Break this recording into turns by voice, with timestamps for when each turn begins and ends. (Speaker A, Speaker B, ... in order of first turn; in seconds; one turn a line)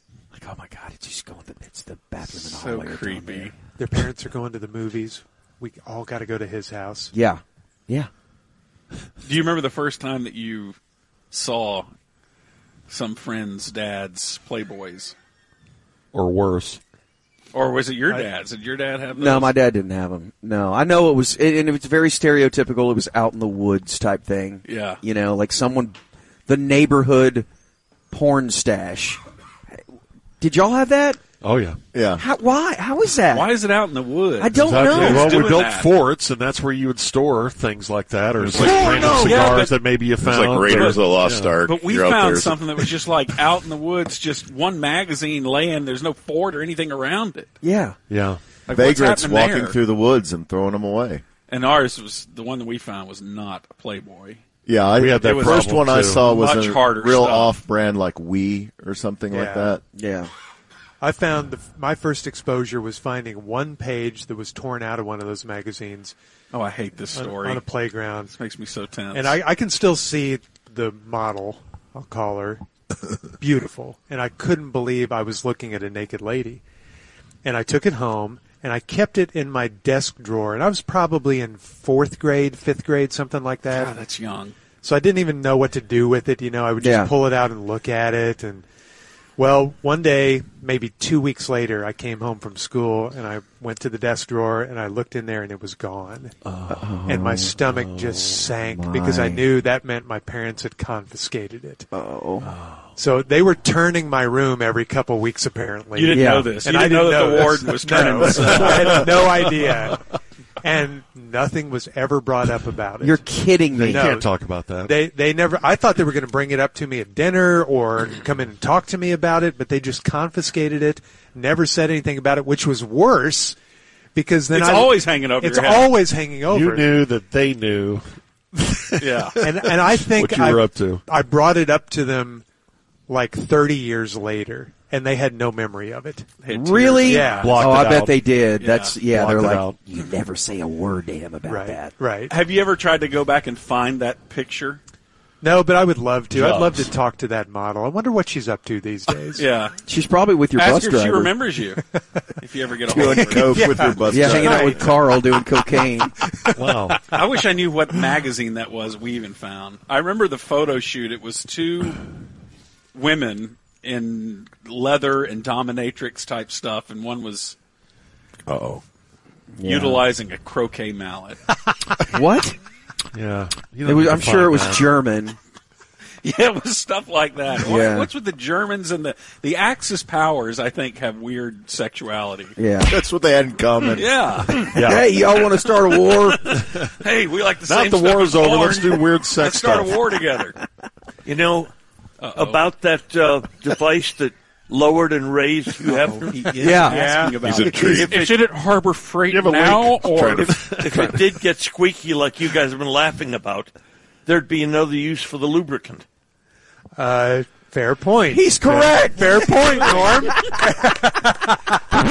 Speaker A: 0.3-3.5
Speaker B: 2.3-3.5
Speaker C: 3.8-7.1
Speaker A: 7.1-8.1
Speaker B: 9.2-10.8
Speaker B: 11.3-11.9
Speaker B: 12.9-15.1
Speaker D: 16.1-16.8
Speaker B: 17.5-19.6
Speaker A: 19.1-25.9
Speaker B: 24.6-25.0
Speaker A: 26.5-27.5
Speaker A: 28.1-29.2
Speaker A: 30.4-31.2
Speaker D: 31.4-31.8
Speaker E: 31.9-32.2
Speaker A: 32.1-33.6
Speaker B: 33.3-35.9
Speaker A: 34.4-35.5
Speaker D: 34.5-41.6
Speaker F: 38.4-39.7
Speaker B: 39.0-39.8
Speaker F: 40.2-42.9
Speaker B: 40.7-41.1
Speaker B: 41.6-47.5
Speaker A: 47.6-48.0
Speaker D: 48.1-48.4
Speaker B: 48.7-49.8
Speaker E: 48.7-51.2
Speaker B: 51.5-54.4
Speaker E: 54.7-59.8
Speaker D: 55.0-56.2
Speaker B: 56.2-57.6
Speaker C: 59.3-59.8
Speaker A: 60.0-60.3
Speaker C: 61.0-66.2
Speaker B: 66.5-67.7
Speaker C: 67.1-68.3
Speaker B: 68.3-69.4
Speaker C: 69.1-72.6
Speaker C: 73.4-76.6
Speaker C: 77.4-83.9
Speaker B: 83.7-84.5
Speaker C: 84.8-88.7
Speaker A: 86.8-87.1
Speaker C: 89.4-96.3
Speaker D: 96.5-96.9
Speaker A: 96.7-97.5
Speaker C: 97.1-101.9
Speaker D: 97.7-98.5
Speaker A: 98.6-99.5
Speaker A: 101.9-102.5
Speaker D: 102.5-102.9
Speaker C: 103.0-110.1
Speaker B: 105.9-109.3
Speaker A: 106.1-106.5
Speaker C: 110.6-113.2
Speaker A: 113.0-114.1
Speaker D: 113.7-114.9
Speaker C: 113.9-114.3
Speaker C: 114.8-123.6
Speaker C: 124.2-126.9
Speaker B: 124.5-125.9
Speaker D: 126.5-128.0
Speaker D: 128.6-131.0
Speaker B: 129.0-129.4
Speaker C: 129.4-132.4
Speaker C: 133.1-136.3
Speaker B: 136.4-137.6
Speaker A: 136.5-141.9
Speaker C: 137.1-137.6
Speaker D: 137.3-138.3
Speaker B: 138.6-139.0
Speaker D: 139.1-139.8
Speaker C: 141.5-142.3
Speaker B: 142.3-144.8
Speaker C: 145.4-149.5
Speaker D: 146.3-146.9
Speaker B: 149.3-149.8
Speaker A: 149.8-151.3
Speaker B: 150.6-151.8
Speaker C: 152.0-152.2
Speaker B: 152.4-153.9
Speaker E: 152.9-154.9
Speaker C: 153.3-154.9
Speaker A: 154.1-156.1
Speaker B: 154.5-154.9
Speaker C: 156.2-157.0
Speaker D: 156.6-157.0
Speaker B: 157.1-162.0
Speaker B: 162.9-167.6
Speaker F: 168.5-168.8
Speaker A: 169.6-170.1
Speaker B: 169.6-171.4
Speaker A: 172.1-172.6
Speaker D: 173.1-174.9
Speaker A: 173.8-175.4
Speaker B: 176.2-182.6
Speaker A: 177.6-178.1
Speaker A: 182.6-182.9
Speaker E: 182.8-184.2
Speaker B: 183.9-184.8
Speaker A: 184.5-186.6
Speaker D: 184.7-185.2
Speaker D: 186.5-186.9
Speaker B: 186.8-190.6
Speaker D: 187.7-190.0
Speaker G: 191.2-191.7
Speaker B: 192.2-192.7
Speaker G: 192.3-196.8
Speaker B: 195.8-200.8
Speaker A: 196.6-197.0
Speaker C: 196.9-197.3
Speaker F: 197.4-198.4
Speaker D: 199.3-201.3
Speaker F: 200.2-200.5
Speaker G: 200.8-203.7
Speaker G: 204.3-206.1
Speaker C: 207.0-211.6
Speaker A: 208.3-210.5